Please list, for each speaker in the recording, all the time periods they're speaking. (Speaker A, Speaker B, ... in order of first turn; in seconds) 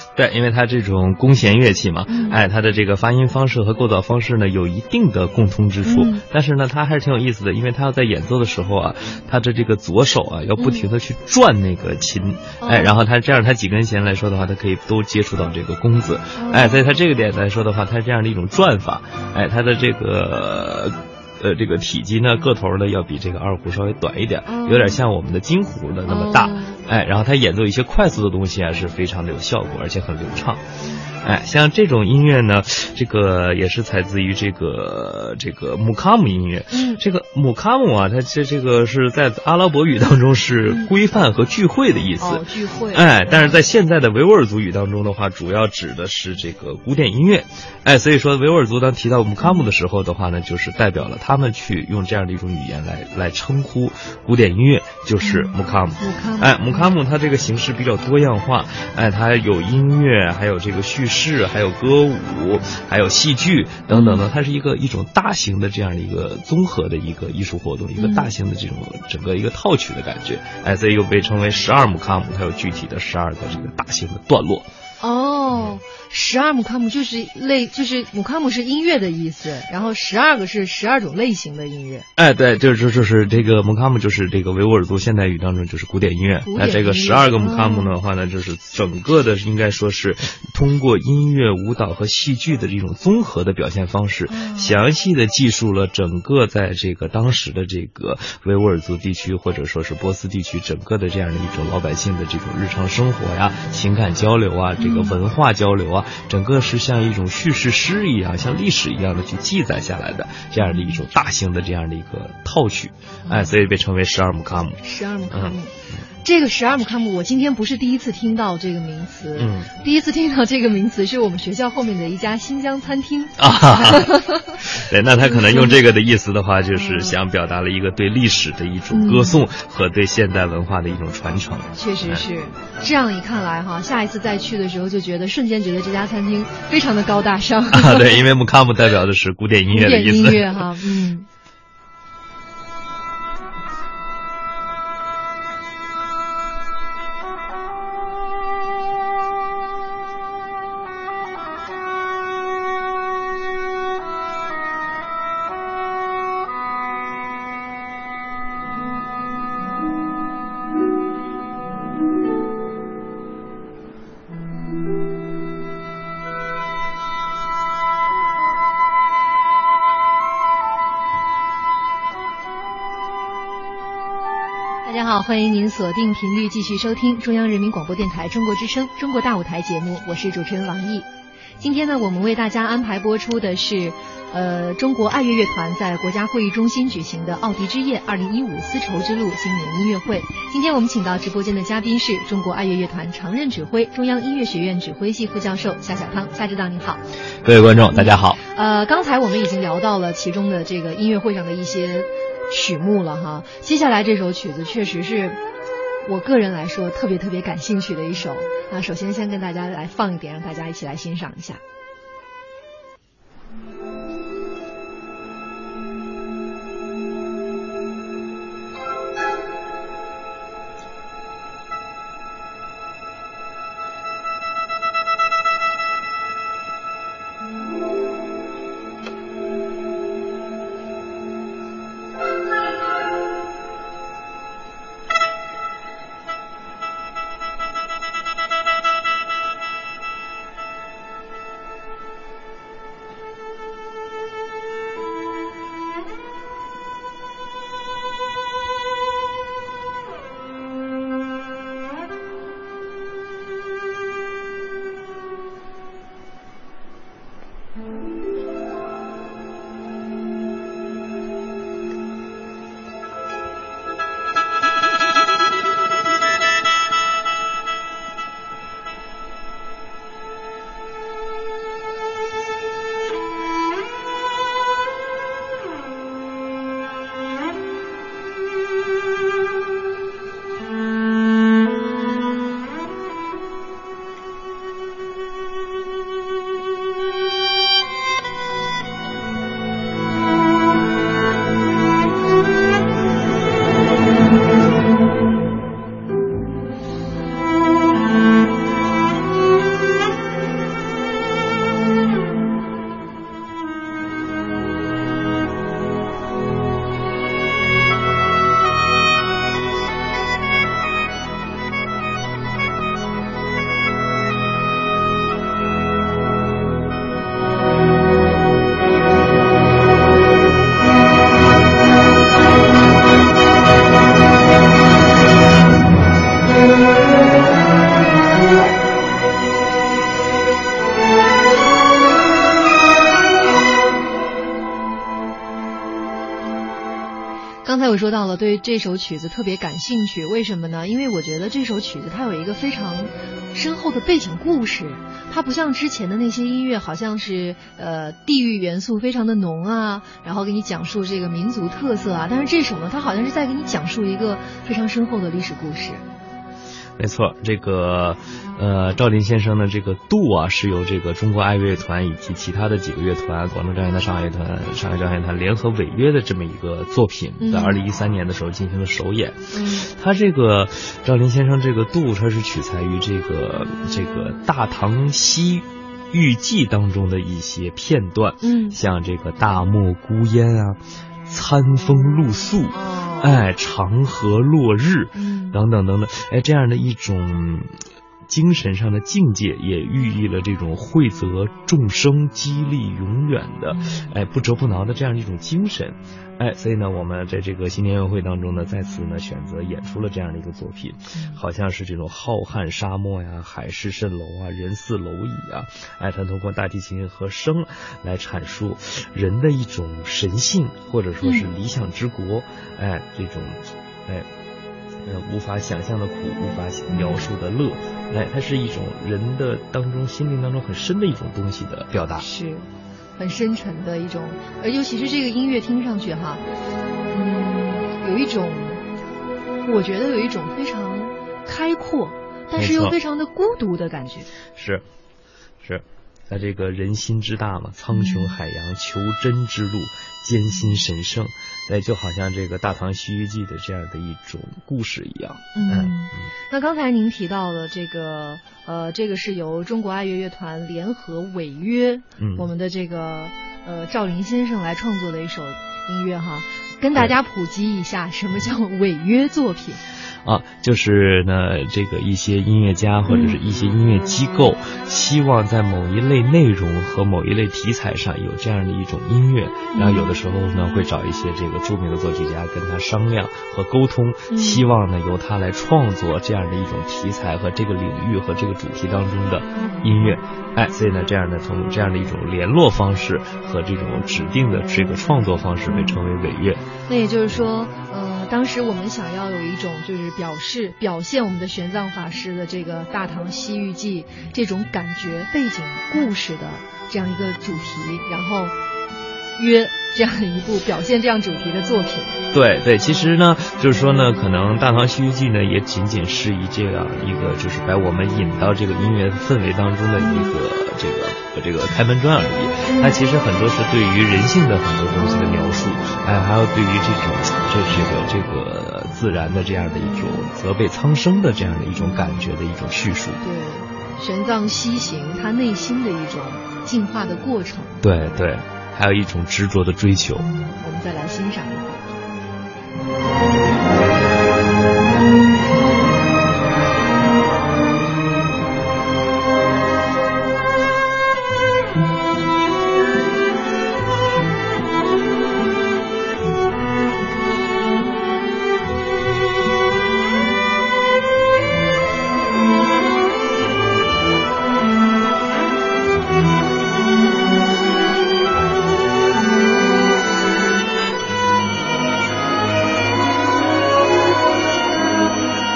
Speaker A: 0.1-30.6, 31.2-74.7, 82.2-115.6, 119.4-119.7, 123.4-132.2, 137.7-140.6, 197.4-198.4, 357.0-387.7, 388.3-414.3, 415.0-422.2, 432.6-432.9, 434.6-434.8, 435.6-445.9, 452.2-452.5, 460.2-486.6, 502.3-523.2, 527.8-530.3
Speaker B: 2.1-2.4, 5.8-6.2, 10.6-10.9, 12.6-13.0, 16.4-16.8, 24.5-25.0, 26.1-26.8, 36.7-37.0, 42.2-43.6, 49.4-49.7, 55.2-56.9, 63.9-64.2, 68.0-68.3, 75.0-82.1, 86.5-87.9, 94.3-94.8, 104.8-105.1, 110.6-111.0, 113.2-113.5, 114.8-125.8, 126.7-127.2, 128.9-129.4, 131.7-138.2, 139.7-141.3, 174.8-181.1, 181.6-197.0, 197.9-205.4, 206.0-211.6, 337.6-356.0, 367.4-367.8, 369.5-369.9, 378.4-378.8, 382.7-383.4, 385.1-385.6, 393.7-394.1, 401.1-401.4, 411.2-411.5, 416.9-417.2, 422.2-426.4, 427.1-428.8, 429.6-434.3, 437.9-438.3, 440.5-440.9, 445.6-459.8, 463.1-463.4, 469.7-470.1, 474.3-474.6, 479.5-479.9, 486.9-498.6, 499.4-502.2, 510.0-510.3, 519.8-520.2, 521.8-522.1, 523.2-527.8, 530.6-531.8